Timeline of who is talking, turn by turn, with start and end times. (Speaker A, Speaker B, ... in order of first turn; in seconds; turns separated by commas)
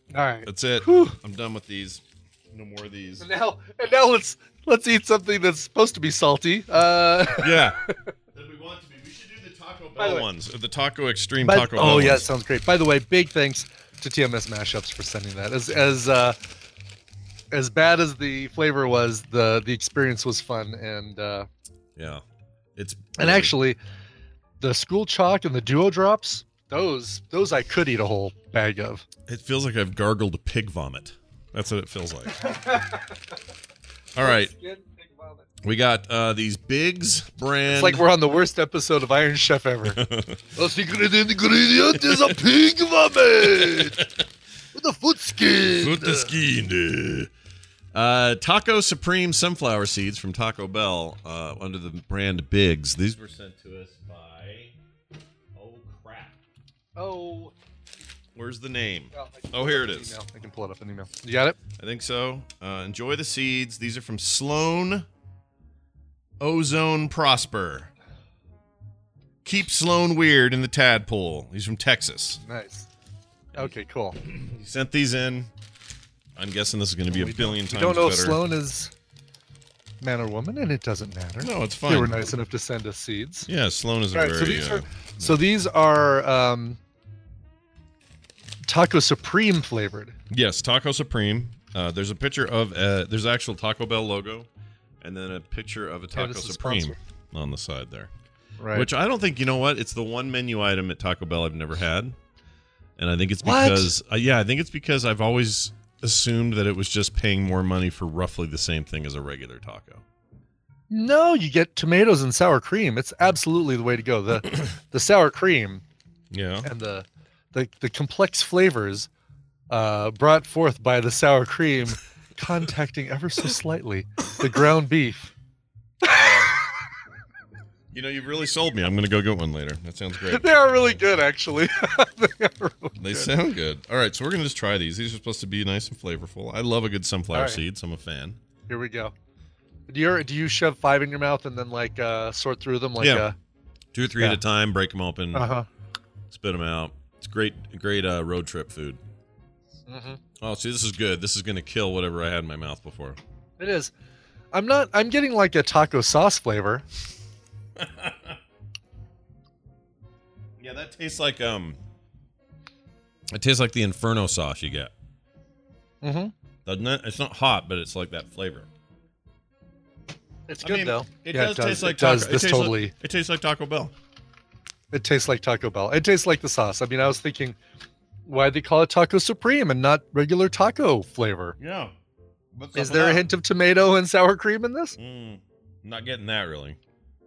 Speaker A: 0.1-1.1, Speaker B: 0.4-3.3, Speaker A: 3.2-8.1, Speaker B: 7.4-7.8, Speaker B: 8.3-12.3, Speaker A: 10.0-10.3, Speaker A: 11.4-16.4, Speaker A: 17.5-21.5, Speaker B: 22.0-22.2, Speaker B: 22.8-23.6, Speaker A: 23.2-23.8, Speaker A: 24.6-29.1, Speaker B: 29.3-32.4, Speaker A: 32.3-33.2, Speaker B: 34.1-34.5, Speaker A: 34.2-35.5, Speaker B: 35.6-38.0, Speaker A: 37.7-40.0, Speaker B: 40.0-40.4, Speaker A: 40.5-44.1, Speaker B: 43.6-44.1, Speaker A: 44.7-46.3, Speaker B: 45.8-47.3, Speaker B: 47.9-54.8, Speaker B: 55.5-56.4, Speaker A: 57.0-57.5, Speaker B: 58.4-60.2, Speaker A: 59.1-61.6, Speaker B: 61.8-65.1, Speaker B: 66.4-67.9, Speaker B: 69.4-72.4, Speaker A: 72.4-72.9, Speaker A: 73.5-74.2, Speaker B: 73.5-75.5, Speaker B: 76.4-78.4, Speaker A: 77.1-78.9, Speaker A: 80.0-83.5, Speaker B: 81.4-82.2, Speaker B: 83.5-85.3, Speaker A: 84.1-86.8, Speaker A: 88.6-90.2, Speaker B: 90.3-94.5, Speaker B: 95.0-98.1, Speaker A: 96.1-97.0, Speaker A: 98.6-98.9, Speaker B: 98.7-102.2, Speaker B: 103.0-110.0, Speaker A: 103.4-103.9, Speaker A: 110.9-115.8, Speaker B: 116.3-116.7, Speaker A: 116.6-119.1, Speaker A: 119.7-125.3, Speaker A: 126.0-126.5, Speaker B: 126.0-126.5, Speaker B: 127.9-130.5, Speaker A: 130.3-133.3, Speaker B: 133.0-138.4, Speaker A: 137.3-137.6, Speaker A: 138.7-139.1, Speaker A: 139.9-143.3, Speaker B: 143.0-143.3, Speaker B: 143.9-145.5, Speaker A: 145.3-145.7, Speaker B: 146.3-149.0, Speaker A: 149.9-150.2, Speaker B: 150.4-153.2, Speaker A: 153.6-153.9, Speaker A: 154.5-156.8, Speaker B: 157.8-158.4, Speaker B: 160.6-161.8, Speaker B: 163.3-164.9, Speaker A: 166.0-166.3, Speaker B: 166.7-168.7, Speaker A: 170.5-172.9, Speaker B: 170.6-173.9, Speaker A: 174.9-177.6, Speaker A: 178.2-181.6, Speaker B: 181.6-181.9, Speaker B: 182.5-183.3, Speaker A: 182.8-184.9, Speaker B: 185.0-186.8